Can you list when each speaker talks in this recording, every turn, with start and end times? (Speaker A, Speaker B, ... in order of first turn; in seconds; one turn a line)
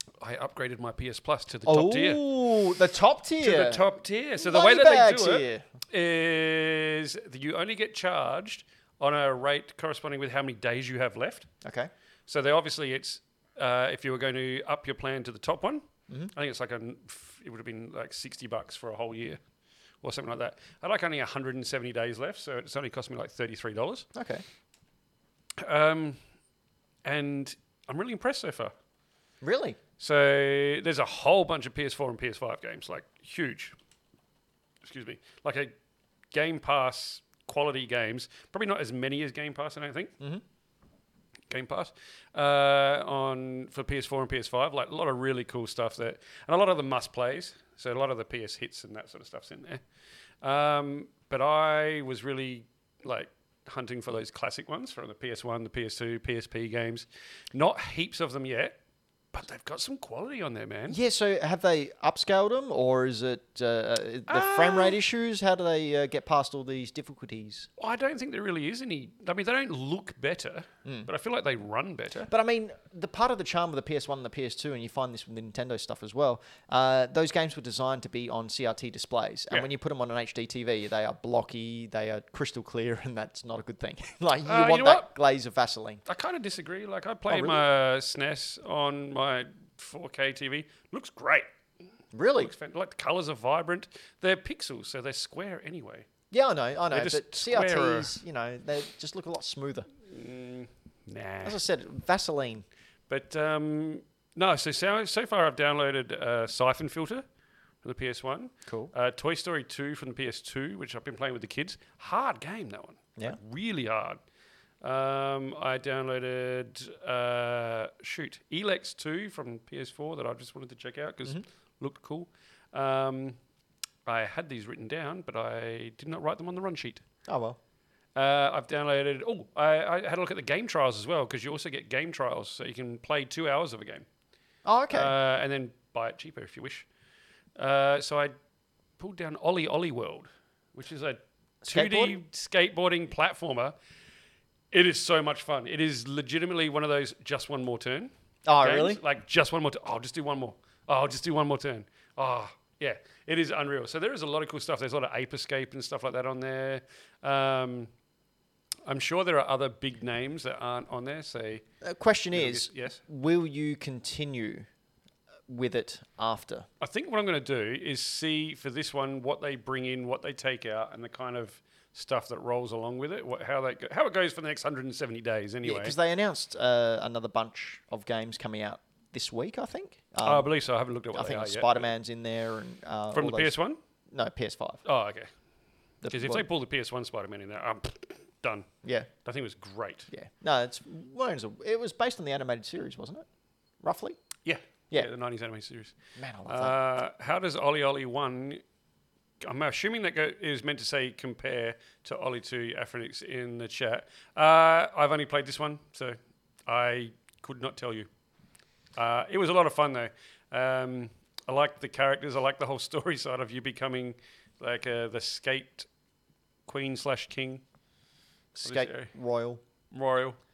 Speaker A: 0.2-2.2
Speaker B: 1.7-3.9
Speaker A: 3.4-11.5
Speaker B: 4.4-5.6
Speaker B: 11.6-11.9
Speaker A: 12.3-19.4
Speaker A: 20.0-24.1
Speaker B: 24.1-24.4
Speaker A: 25.6-26.2
Speaker A: 27.0-28.7
Speaker B: 29.4-29.8
Speaker A: 30.0-33.7
Speaker A: 34.8-35.7
Speaker A: 36.3-40.1
Speaker A: 41.5-49.8
Speaker A: 50.4-58.8
Speaker A: 59.3-61.0
Speaker B: 60.9-67.7
Speaker A: 64.3-65.0
Speaker A: 67.8-72.3
Speaker B: 72.3-86.0
Speaker A: 84.5-85.1
Speaker A: 86.1-91.5
Speaker B: 87.3-87.6
Speaker B: 92.1-92.5
Speaker A: 92.4-96.1
Speaker B: 96.3-99.9
Speaker A: 96.9-98.2
Speaker A: 100.1-101.6
Speaker B: 101.4-102.7
Speaker A: 103.1-107.2
Speaker A: 107.8-114.2
Speaker B: 108.7-108.9
Speaker A: 114.8-123.4
Speaker A: 124.1-127.0
Speaker B: 127.3-127.6
Speaker A: 128.2-134.1
Speaker B: 134.7-135.1
Speaker A: 134.9-136.8
Speaker A: 137.6-138.3
Speaker A: 139.0-143.7
Speaker B: 141.6-142.2
Speaker A: 144.7-148.1
Speaker B: 148.5-149.0
Speaker A: 148.6-157.9
Speaker A: 158.9-161.6
Speaker B: 161.8-164.7
Speaker A: 162.3-163.0
Speaker B: 165.5-166.7
Speaker A: 166.8-175.9
Speaker B: 175.6-180.5
Speaker A: 180.2-181.9
Speaker B: 181.1-183.5
Speaker A: 183.1-183.8
Speaker B: 184.1-184.8
Speaker A: 184.8-185.3
Speaker B: 186.0-186.4
Speaker A: 186.1-188.7
Speaker B: 188.8-189.1
Speaker A: 189.2-190.1
Speaker B: 190.1-193.2
Speaker B: 193.8-194.2
Speaker A: 194.4-195.9
Speaker B: 196.2-196.8
Speaker A: 196.5-198.6
Speaker A: 199.4-208.1
Speaker A: 209.0-215.9
Speaker A: 216.7-217.6
Speaker B: 218.6-219.6
Speaker A: 218.6-219.1
Speaker A: 219.9-220.4